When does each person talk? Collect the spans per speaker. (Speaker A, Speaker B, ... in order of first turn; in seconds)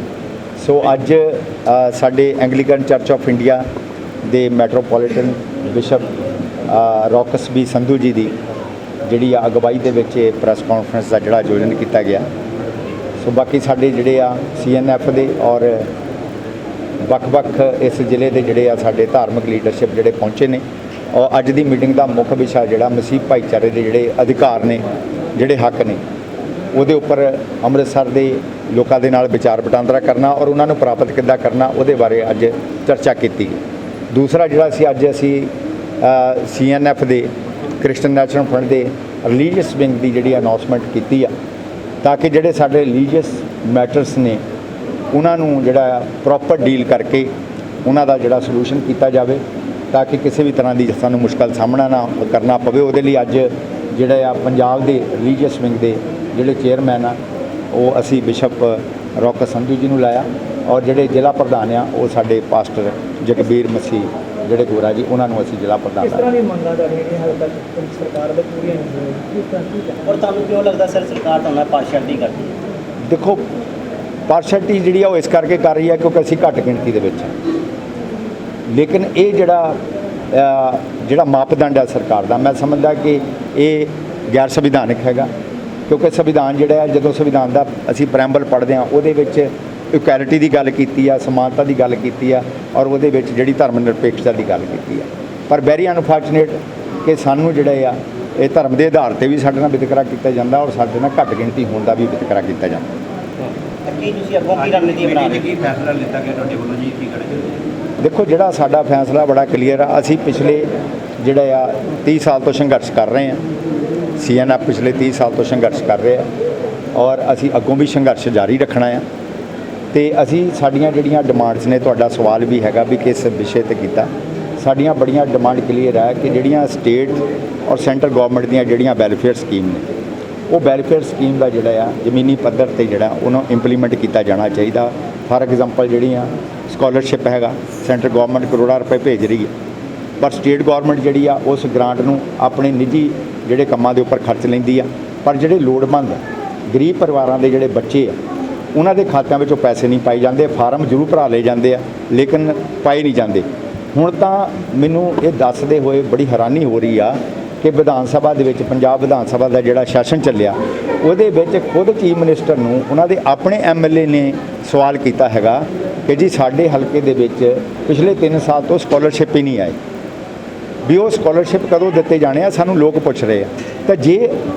Speaker A: 0.6-3.6, 4.2-8.3, 9.0-12.3, 13.2-15.9, 17.0-24.8, 25.4-26.0, 26.7-41.3, 42.0-44.4, 45.1-47.3, 47.9-57.2, 57.7-66.3, 73.1-73.4, 74.3-77.3, 78.7-79.8, 80.3-85.3, 85.9-102.9, 108.0-110.7, 111.2-113.4, 114.2-116.3, 117.0-119.0, 119.9-129.9, 130.5-139.5, 140.2-148.2, 148.7-169.8, 170.8-174.4
Speaker B: 66.0-70.0
Speaker C: 70.0-72.5, 103.9-105.5
Speaker D: 104.6-107.6